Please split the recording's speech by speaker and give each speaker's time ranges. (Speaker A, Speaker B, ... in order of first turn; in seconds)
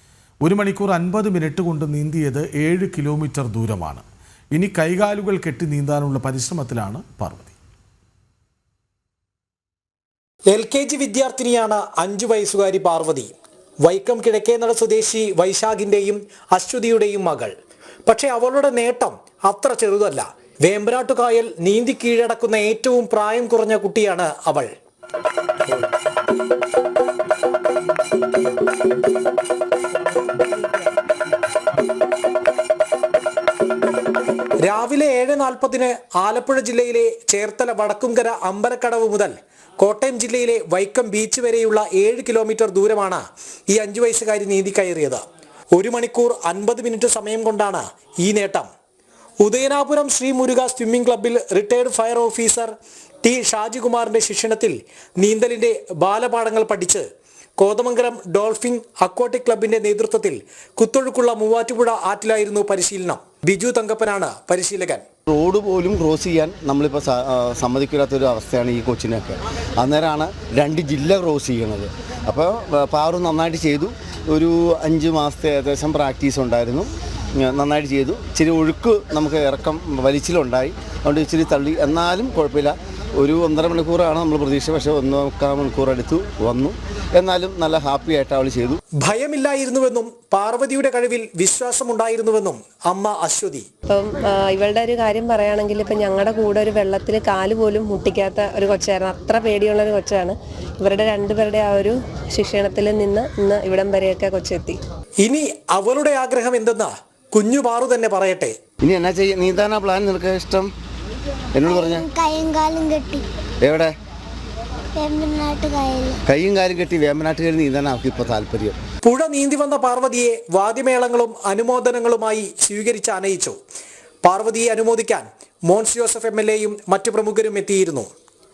Speaker A: 0.4-7.5
Speaker B: 10.5-13.3, 13.8-17.5, 18.1-24.7, 34.6-45.2, 45.8-48.7, 49.4-57.0, 57.6-65.0, 89.0-93.7, 105.2-108.6, 119.0-123.6, 124.2-128.1
Speaker C: 65.3-88.8, 108.8-110.7, 111.5-112.1, 113.6-113.9, 116.3-118.8
Speaker D: 93.9-104.8
Speaker E: 111.7-113.2, 115.0-116.2